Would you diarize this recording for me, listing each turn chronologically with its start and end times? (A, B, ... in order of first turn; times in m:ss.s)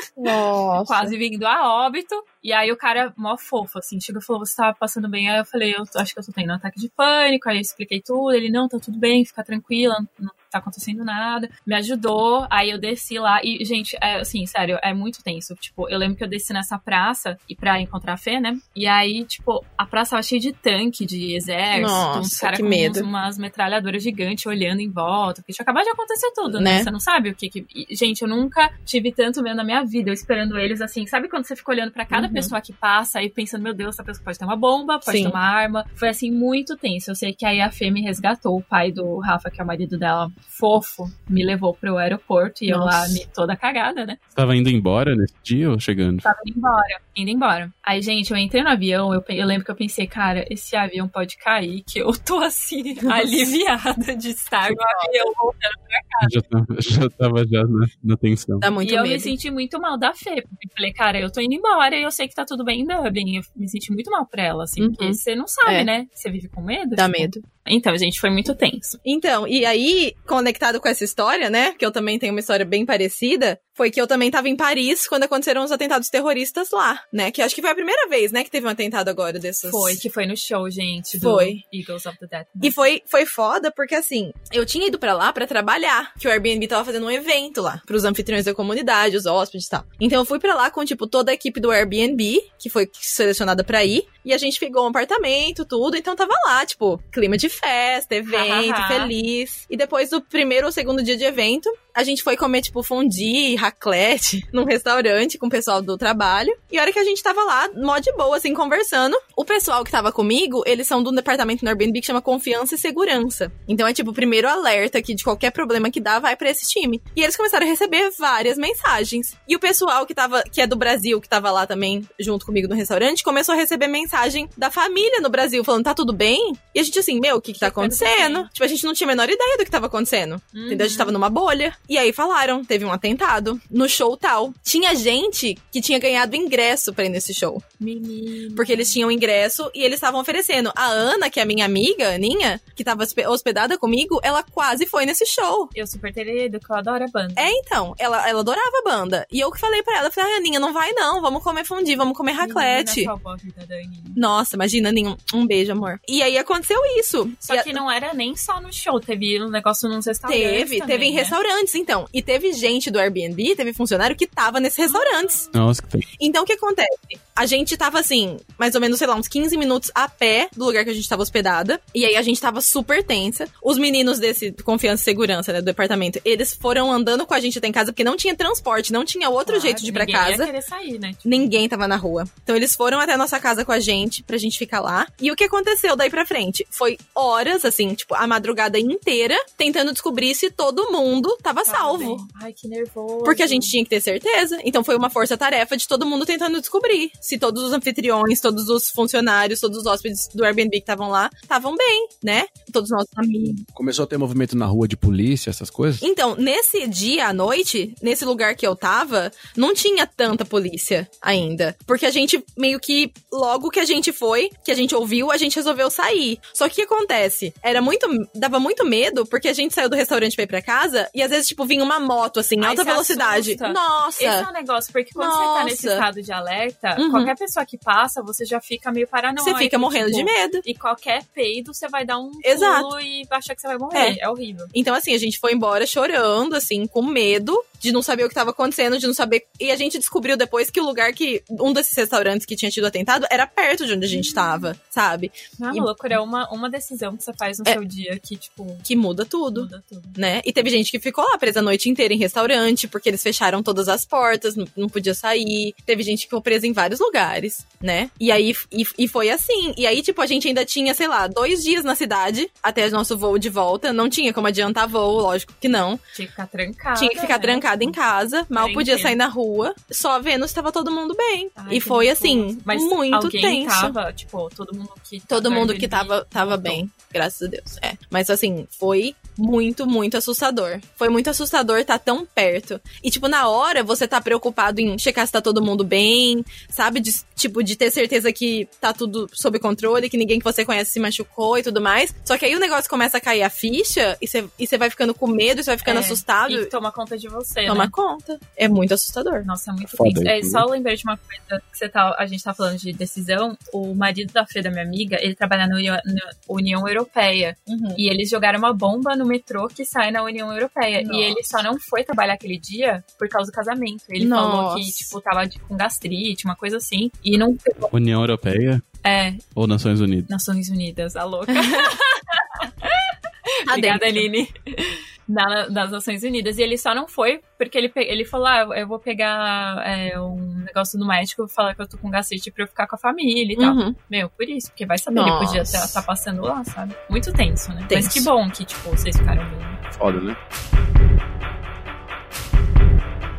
0:00.2-0:01.1 A
0:00.3-0:44.2 B
0:21.7-0:23.1 A
0:26.5-0:26.9 A
0:32.1-0:32.5 A
0:35.1-0:35.4 A
0:42.7-0:43.2 A
0:44.3-0:46.2 C
0:46.2-0:56.3 B
0:54.7-0:55.1 A
0:56.2-0:58.7 C
0:58.6-0:59.3 A
0:58.8-1:09.0 B
1:04.8-1:05.9 A
1:07.0-1:07.4 A
1:09.0-1:20.0 A
1:19.6-1:22.8 B
1:21.2-1:21.6 A
1:22.6-2:17.6 A
1:38.3-1:39.1 B
2:07.6-2:08.5 B
2:10.5-2:11.2 B
2:17.8-2:19.0 B
2:18.6-2:25.7 A
2:25.7-2:27.6 B
2:27.4-2:33.1 A
2:32.4-2:34.2 B
2:34.2-2:37.8 A
2:37.4-2:41.4 B
2:40.2-2:45.4 A
2:44.8-2:45.5 B
2:45.5-2:46.1 C
2:46.2-3:00.5 A
2:59.4-3:01.3 B
3:01.2-3:12.2 A
3:11.6-3:13.8 B
3:13.2-3:23.6 A
3:23.7-3:26.0 D
3:26.0-3:44.5 A
3:42.6-3:54.7 B
3:45.2-3:46.0 A
3:47.0-3:47.3 A
3:49.4-3:50.6 A
3:52.4-3:52.9 A
3:54.7-4:05.9 A
4:04.1-4:04.7 B
4:05.6-4:08.8 B
4:08.8-4:26.0 A
4:09.5-4:10.2 B
4:26.1-4:28.0 B
4:27.0-4:34.0 A
4:28.5-4:29.2 B
4:31.6-4:36.8 B
4:35.3-4:56.7 A
4:55.8-4:57.9 B
4:57.7-4:59.5 A
4:59.4-5:17.9 B
4:59.8-5:00.7 D
5:07.7-5:08.0 A
5:11.0-5:11.4 A
5:14.2-5:15.1 A
5:17.9-5:18.8 C
5:19.0-5:19.4 B
5:19.5-5:20.3 C
5:20.3-5:23.1 B
5:21.5-5:21.9 A
5:23.6-5:24.3 A
5:23.6-5:39.8 B
5:33.6-5:34.0 A
5:35.1-5:36.0 A
5:37.9-5:38.3 A
5:39.9-5:40.4 D